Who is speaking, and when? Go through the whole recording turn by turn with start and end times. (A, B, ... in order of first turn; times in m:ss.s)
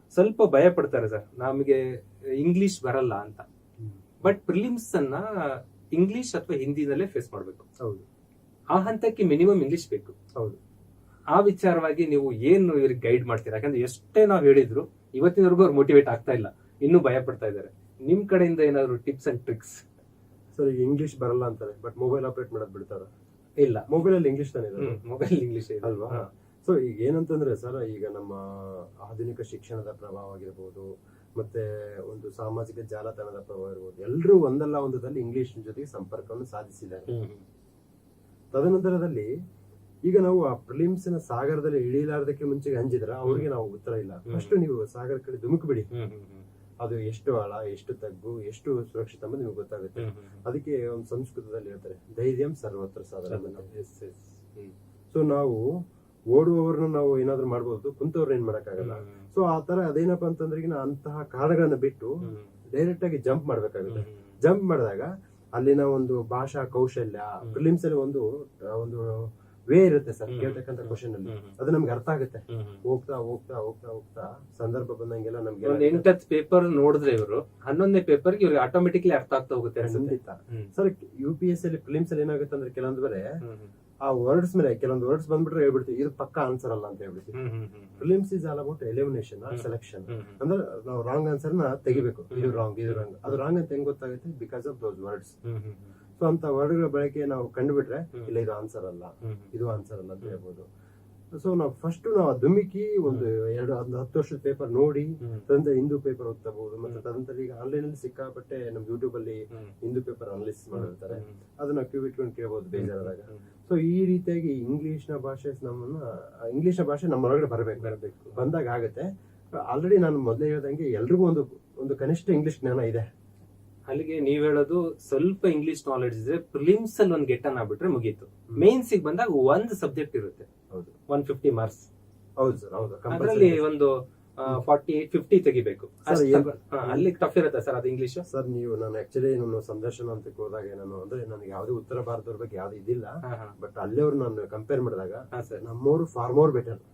0:00.1-0:01.8 A
0:02.4-0:03.4 A
0:03.8-0:04.3 B
0:04.2-0:07.7 A
0:08.7-0:10.1 A
0:11.3-0:19.8 A
0:20.6-0:23.1 B
0:23.6-0:23.9 A
0:23.9-0:25.0 B
0:24.8-0:26.3 A
0:25.8-0:37.1 B
0:37.1-0:37.4 A
0:38.5-0:39.3 B
0:40.0-0:45.9 B
0:44.3-0:44.5 A
0:45.9-0:46.4 A
0:46.8-0:53.7 B
0:50.0-0:50.4 A
0:53.3-0:54.7 A
0:55.1-0:55.6 B
0:56.3-1:02.2 B
0:58.8-0:59.3 A
1:02.2-1:02.5 A
1:02.7-1:16.1 B
1:03.9-1:04.3 A
1:10.3-1:11.5 A
1:12.5-1:12.8 A
1:15.6-1:20.7 A
1:19.8-1:23.2 B
1:23.4-1:23.7 A
1:24.0-1:27.4 B
1:27.4-1:28.0 A
1:28.0-1:35.4 B
1:29.5-1:30.4 A
1:31.9-1:33.4 A
1:35.4-1:35.9 A
1:36.2-1:40.6 B
1:39.2-1:39.5 A
1:41.4-1:59.1 B
1:50.7-1:51.4 A
1:52.7-1:53.5 A
1:57.8-1:58.4 A
1:59.6-2:03.1 B
2:03.9-2:10.5 A
2:11.1-2:11.9 A
2:12.4-2:13.6 B
2:13.1-2:18.2 A
2:16.0-2:17.1 B
2:18.3-2:26.8 B
2:23.2-2:23.5 A
2:25.3-2:25.6 A